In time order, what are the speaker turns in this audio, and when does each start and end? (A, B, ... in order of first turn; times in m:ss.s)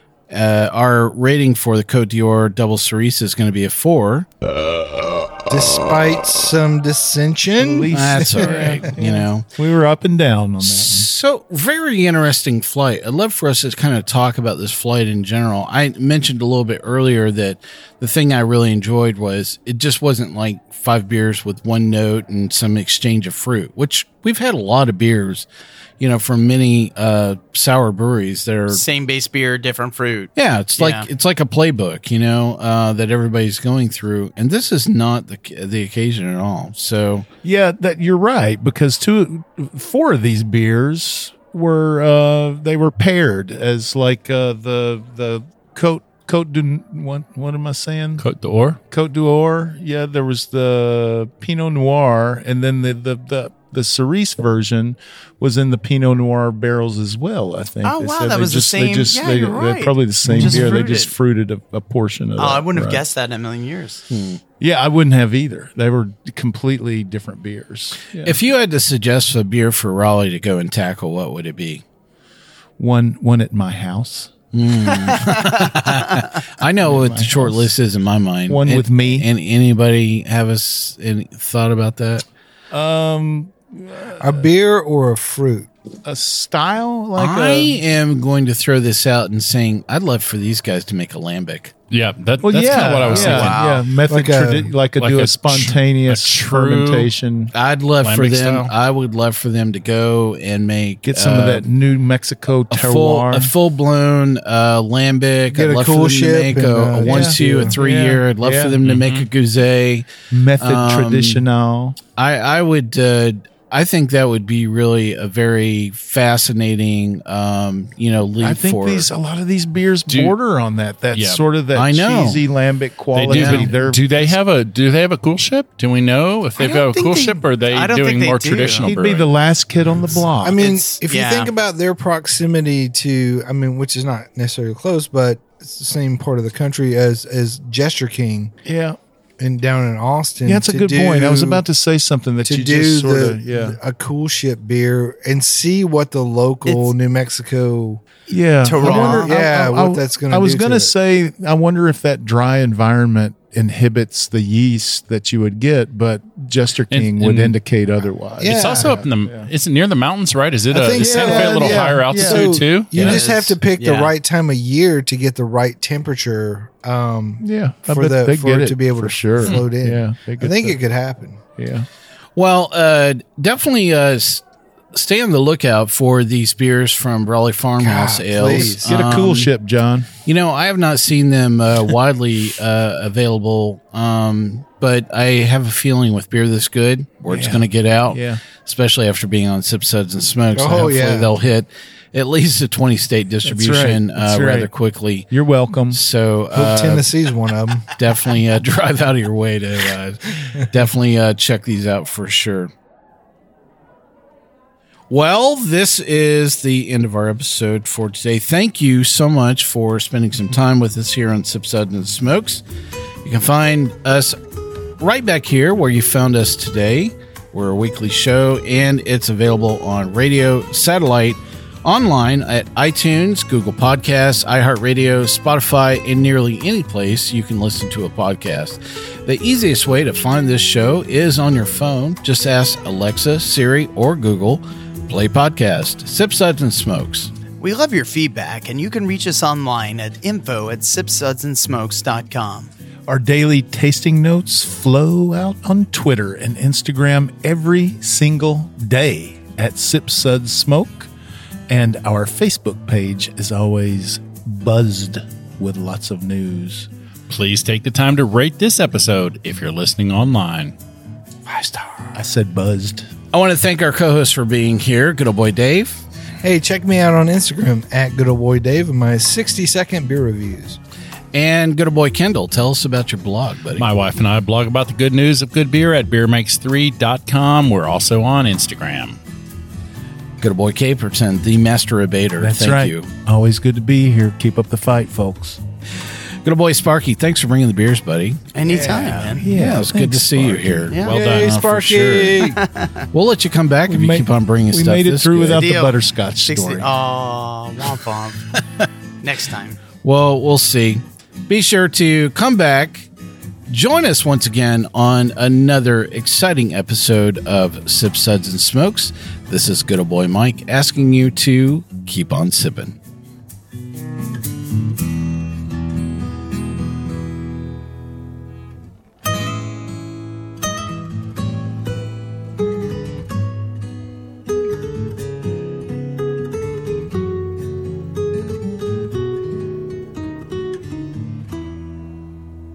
0:00.3-0:04.3 A
0:05.5-0:08.8 B
0:07.6-0:11.1 C
0:07.9-0:09.5 A
0:10.6-0:25.5 A
0:26.0-0:28.8 A
0:28.7-0:31.1 D
0:30.4-0:37.3 A
0:37.4-0:48.2 C
0:48.2-0:48.8 E
0:48.9-1:03.0 C
0:57.8-1:01.1 D
1:00.4-1:00.9 A
1:02.4-1:04.0 D
1:04.1-1:04.4 A
1:04.6-1:08.4 C
1:08.2-1:11.8 A
1:12.8-1:14.3 C
1:14.5-1:22.2 A
1:16.8-1:17.7 C
1:18.5-1:19.3 C
1:22.7-1:24.5 C
1:24.2-1:25.7 B
1:26.0-1:27.8 C
1:27.2-1:31.7 A
1:31.9-1:33.6 E
1:32.4-1:37.5 C
1:33.0-1:33.8 D
1:34.1-1:34.7 B
1:35.0-1:37.1 E
1:37.5-1:41.7 A
1:38.0-1:38.7 E
1:41.0-1:43.5 C
1:42.7-1:51.4 A
1:45.5-1:47.8 B
1:47.0-1:48.8 C
1:48.8-1:49.3 E
1:50.3-1:52.0 C
1:52.2-1:59.1 A
1:58.4-2:04.3 C
2:00.1-2:00.3 E
2:01.1-2:01.4 E
2:01.7-2:02.4 A
2:03.1-2:09.3 E
2:03.3-2:03.7 A
2:06.6-2:08.9 D
2:08.8-2:10.6 C
2:10.4-2:18.5 B
2:10.6-2:11.5 D
2:18.6-2:19.0 C
2:19.4-2:21.6 B
2:20.4-2:23.8 C
2:22.4-2:28.0 B
2:28.3-2:39.5 C
2:28.6-2:29.4 D
2:28.8-2:30.9 B
2:36.9-2:37.6 E
2:38.4-2:39.0 B
2:38.4-2:43.2 E
2:40.7-2:51.4 B
2:40.9-2:42.6 C
2:42.9-2:44.1 D
2:47.4-2:50.8 C
2:51.6-2:51.9 C
2:52.4-2:59.5 A
2:57.8-2:59.1 B
2:58.5-3:00.1 C
3:00.2-3:15.3 A
3:07.3-3:08.4 C
3:10.5-3:11.3 B
3:13.4-3:14.7 C
3:15.3-3:16.0 C
3:15.9-3:17.1 A
3:16.5-3:18.0 B
3:18.0-3:22.7 A
3:25.1-3:32.6 A
3:33.2-3:34.4 A
3:35.0-3:57.3 A
3:57.6-4:02.7 D
4:03.1-4:11.1 C
4:11.7-4:16.9 C
4:17.3-4:20.7 E
4:21.4-4:22.1 B
4:22.1-4:23.1 C
4:23.3-4:26.0 A
4:26.4-4:30.8 B
4:31.3-4:33.9 A
4:33.8-4:39.2 E
4:40.4-4:43.1 A
4:42.4-4:45.6 C
4:46.4-4:52.5 A
4:48.5-4:49.5 D
4:48.8-4:50.9 C
4:50.9-4:51.2 D
4:50.9-4:51.5 E
4:51.0-4:52.6 B
4:52.4-4:53.0 D
4:53.1-4:55.7 A
4:53.9-4:56.9 C
4:55.5-4:58.4 D
4:59.2-4:59.8 D
5:00.0-5:03.1 A
5:03.7-5:13.0 A